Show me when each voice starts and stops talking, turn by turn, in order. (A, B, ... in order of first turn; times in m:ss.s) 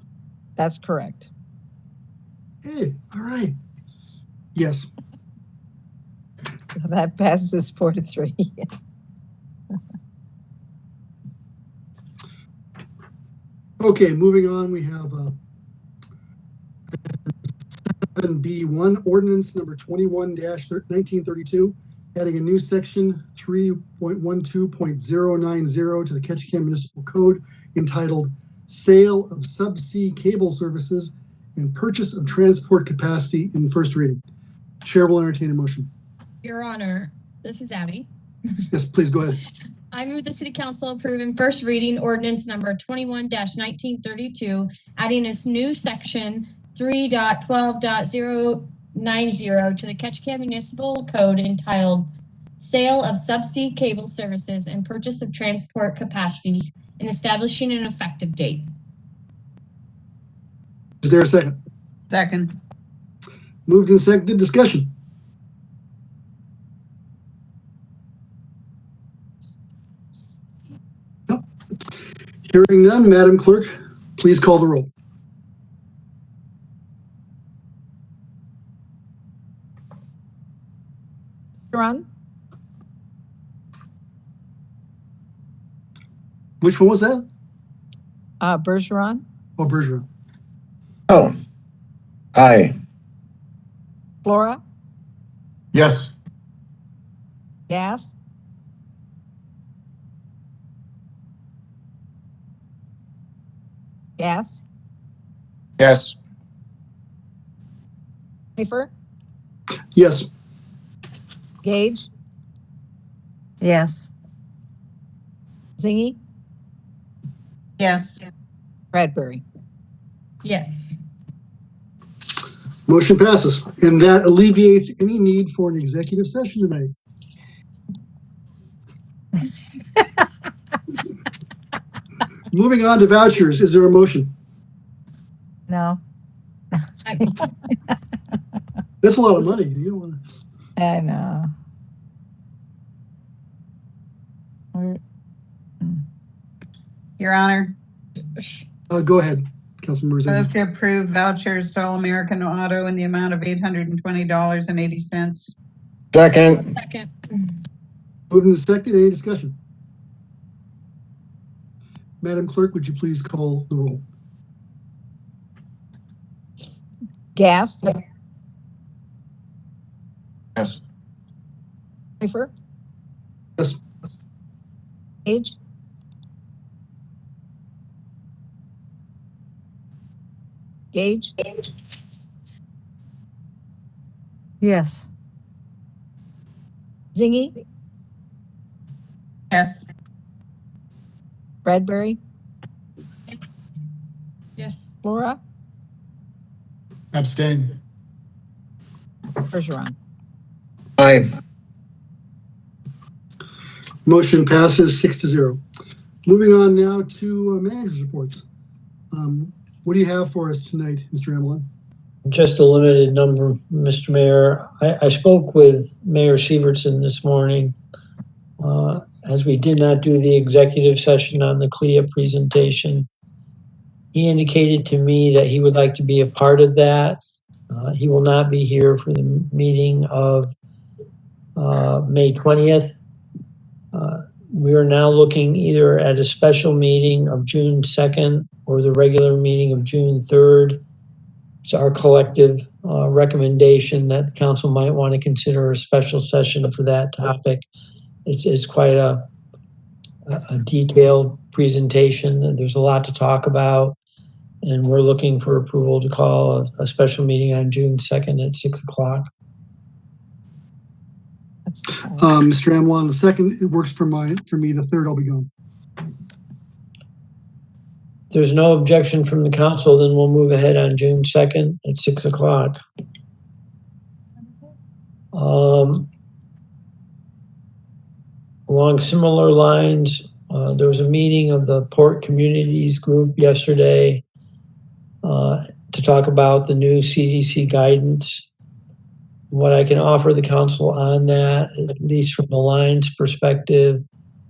0:00.6-0:01.3 A
0:02.6-0:03.6 B
0:04.6-0:04.9 B
0:06.8-0:08.7 A
0:13.8-0:15.4 B
0:17.0-0:17.3 B
0:18.1-0:34.2 B
0:34.8-0:35.9 B
0:36.4-0:38.1 C
0:38.7-0:39.4 B
0:39.9-0:58.7 C
1:01.0-1:01.6 B
1:02.1-1:02.5 D
1:03.7-1:04.9 B
1:12.5-1:14.9 B
1:21.7-1:22.0 A
1:26.6-1:27.2 B
1:28.4-1:29.2 A
1:29.6-1:30.1 B
1:31.1-1:31.4 E
1:32.3-1:32.8 E
1:34.2-1:34.6 A
1:35.7-1:36.1 E
1:37.7-1:38.1 A
1:44.2-1:44.6 A
1:45.8-1:46.2 E
1:48.6-1:48.9 A
1:49.9-1:50.3 B
1:51.6-1:52.1 A
1:53.6-1:54.0 F
1:55.8-1:56.2 A
1:57.8-1:58.2 D
1:58.9-1:59.4 A
2:00.4-2:01.0 C
2:02.9-2:06.9 B
2:12.5-2:14.3 B
2:15.7-2:16.0 F
2:17.0-2:17.4 C
2:19.0-2:20.2 B
2:20.8-2:21.5 F
2:24.7-2:25.0 F
2:27.2-2:27.8 D
2:28.9-2:30.5 B
2:30.3-2:35.5 D
2:36.1-2:36.7 E
2:36.6-2:37.1 C
2:38.3-2:39.6 B
2:42.2-2:44.0 B
2:47.4-2:48.0 A
2:52.2-2:52.5 A
2:55.3-2:55.6 A
3:00.9-3:01.3 A
3:04.6-3:05.0 F
3:07.2-3:07.6 A
3:09.5-3:09.9 D
3:11.6-3:12.2 A
3:13.3-3:13.7 C
3:14.6-3:15.0 C
3:15.0-3:15.4 A
3:17.1-3:17.8 E
3:19.5-3:20.0 A
3:21.0-3:21.3 E
3:24.1-3:25.6 B
3:26.3-3:28.4 B
3:29.1-3:31.7 B
3:32.3-3:37.8 G
3:38.6-3:43.1 G
3:44.1-3:47.2 G
3:47.7-3:50.5 G
3:51.6-3:53.0 G
3:53.9-4:00.8 G
4:01.6-4:07.7 G
4:08.3-4:09.2 G
4:10.3-4:14.0 G
4:14.6-4:19.3 G
4:21.7-4:22.2 A
4:22.1-4:25.5 B
4:28.3-4:32.8 G
4:35.3-4:36.1 G
4:38.7-4:44.2 G
4:45.2-4:48.5 G
4:49.5-4:54.0 G